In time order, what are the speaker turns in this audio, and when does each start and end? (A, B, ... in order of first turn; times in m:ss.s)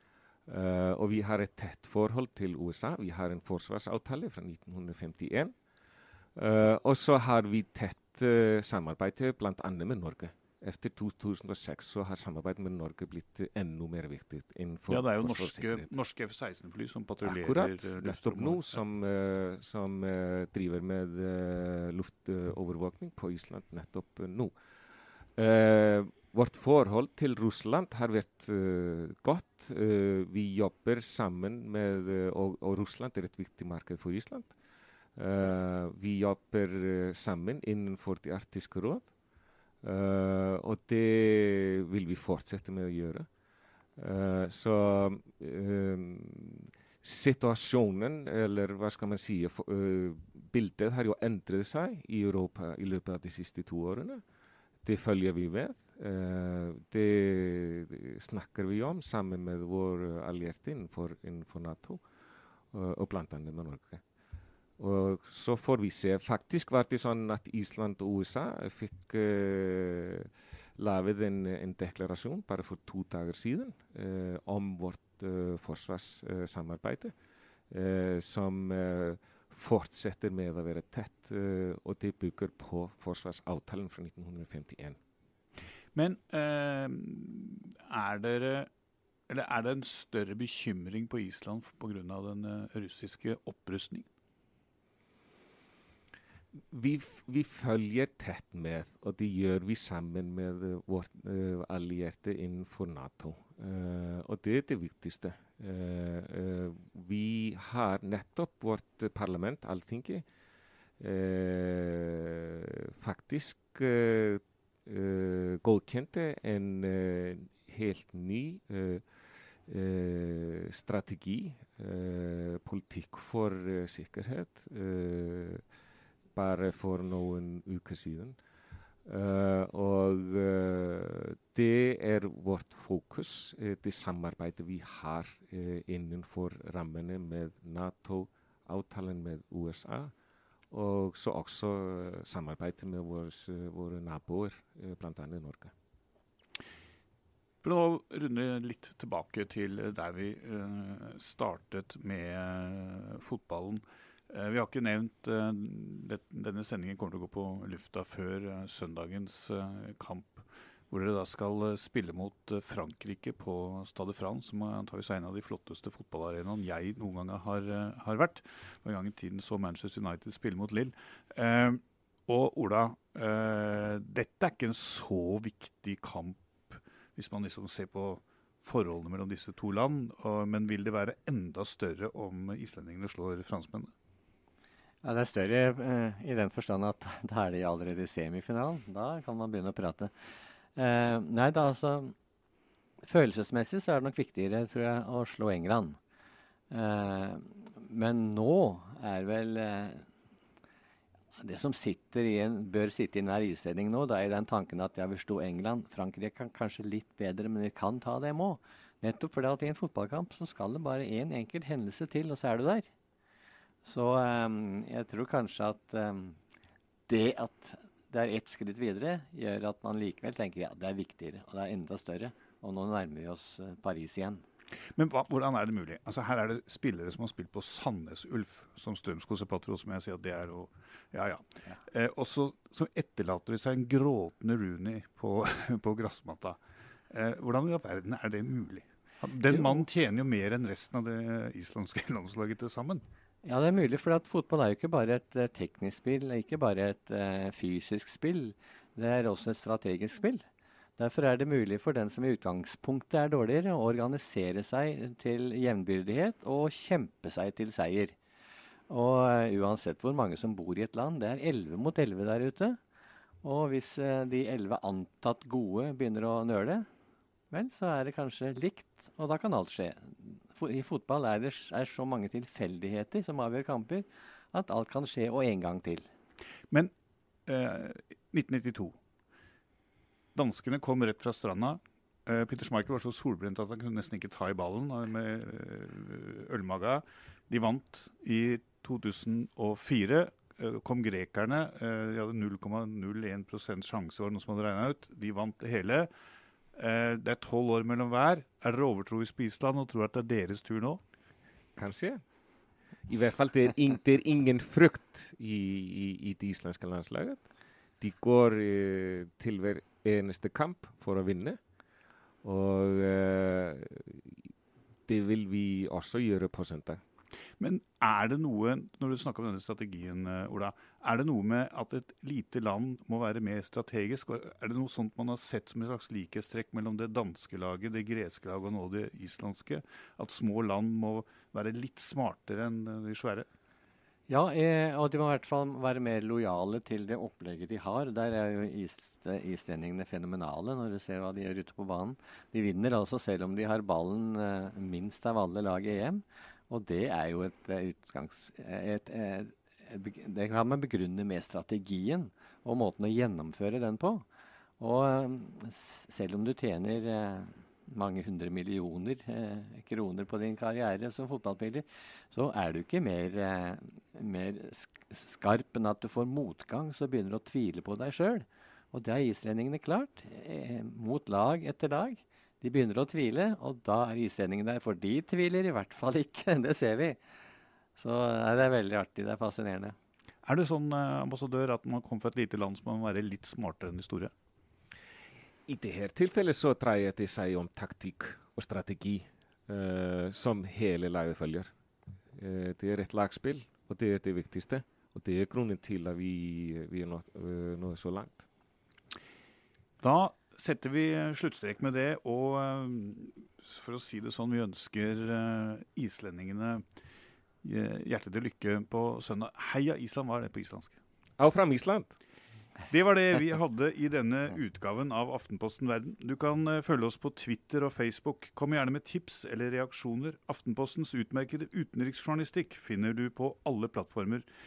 0:00.5-0:05.5 A
0:06.4-0:15.9 A
0:14.9-0:18.8 B
0:17.2-0:24.5 A
0:25.4-0:34.5 A
0:35.2-0:39.1 A
0:39.8-0:43.3 A
0:44.0-0:54.2 A
0:54.8-1:02.0 A
1:02.7-1:04.0 A
1:04.8-1:17.1 A
1:17.7-1:25.0 A
1:25.9-1:28.7 B
1:29.3-1:34.1 B
1:36.7-1:50.2 A
1:51.0-1:59.0 A
1:59.7-2:05.6 A
2:06.3-2:08.4 A
2:09.0-2:20.1 A
2:20.7-2:25.7 A
2:27.6-3:03.9 B
3:05.0-3:10.1 C
3:10.7-3:12.1 C
3:13.0-3:16.0 C
3:16.7-3:20.0 C
3:21.4-3:32.9 C
3:33.8-3:36.4 C
3:37.1-3:44.4 C
3:44.9-3:56.6 B
3:57.1-4:03.0 B
4:03.4-4:10.4 C
4:11.0-4:18.1 C
4:18.9-4:22.8 C
4:23.4-4:26.9 C
4:27.5-4:36.1 C
4:37.4-4:39.0 B
4:40.3-4:56.1 B
4:56.8-5:01.0 B
5:01.8-5:02.2 A
5:03.1-5:07.4 A
5:08.0-5:11.6 A
5:12.4-5:14.5 A
5:15.1-5:17.0 A
5:17.6-5:33.5 B
5:34.3-5:54.2 C
5:54.8-6:17.2 C
6:18.0-6:20.0 C
6:20.4-6:24.3 B
6:25.7-6:31.7 A
6:32.4-6:38.4 A
6:40.0-6:46.8 B
6:47.6-6:51.0 B
6:51.4-6:52.2 A
6:52.9-7:04.4 B